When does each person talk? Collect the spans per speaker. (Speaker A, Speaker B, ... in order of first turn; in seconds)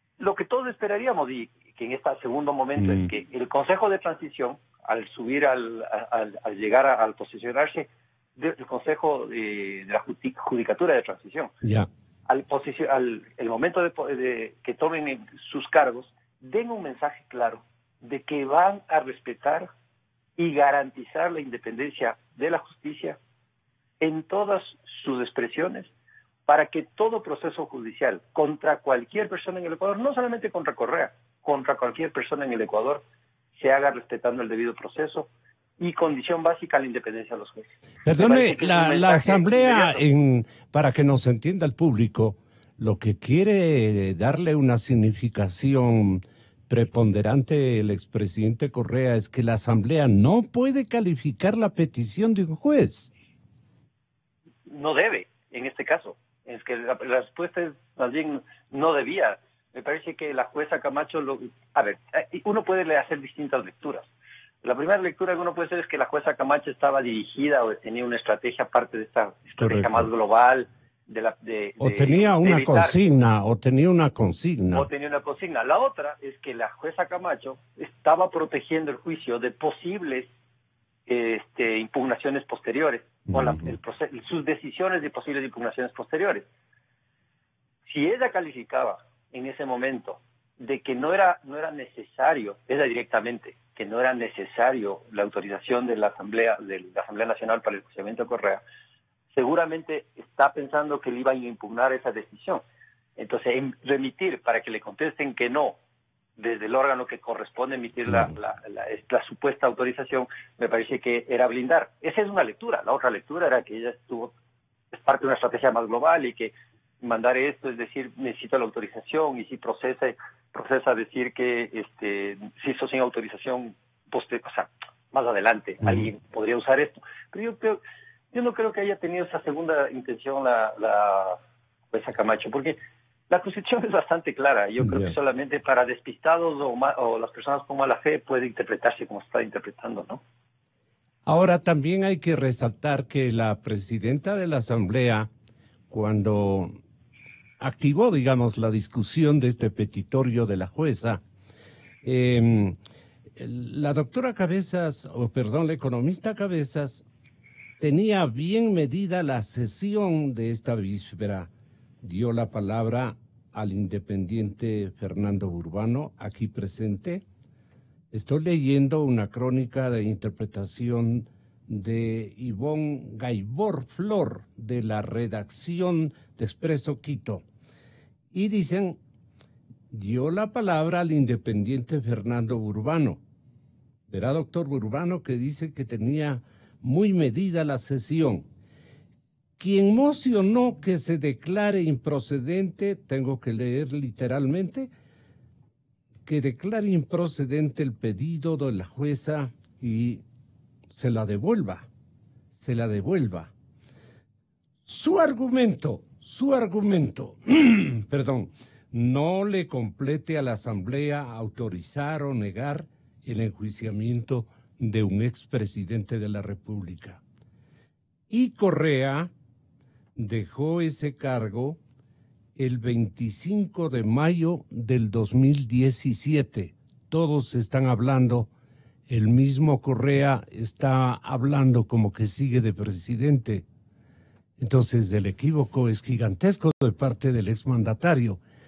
Speaker A: 0.2-11.5, 12.3-19.7, 20.4-23.2, 24.0-25.9, 26.4-40.0, 54.7-64.1, 64.6-73.0, 74.7-80.3, 81.1-86.5, 87.9-98.6, 99.3-102.6, 103.2-105.8, 106.4-114.3, 114.9-127.8, 128.3-131.4, 131.9-132.8, 133.3-140.2
Speaker B: 2.8-3.1, 11.6-11.9, 38.0-53.1, 69.6-70.1, 71.8-74.9, 83.3-83.7, 125.8-126.1, 134.8-135.1, 141.2-145.3, 145.9-146.7, 147.6-151.2, 152.0-152.8, 153.3-157.0, 157.8-161.5, 162.0-167.2, 168.1-177.4, 178.3-179.0, 179.9-183.2, 184.1-188.4, 189.6-194.9, 196.2-200.2, 200.9-201.9, 202.5-203.5, 204.8-217.2, 218.3-219.3, 220.2-221.8, 222.6-228.5, 229.1-233.6, 234.6-238.4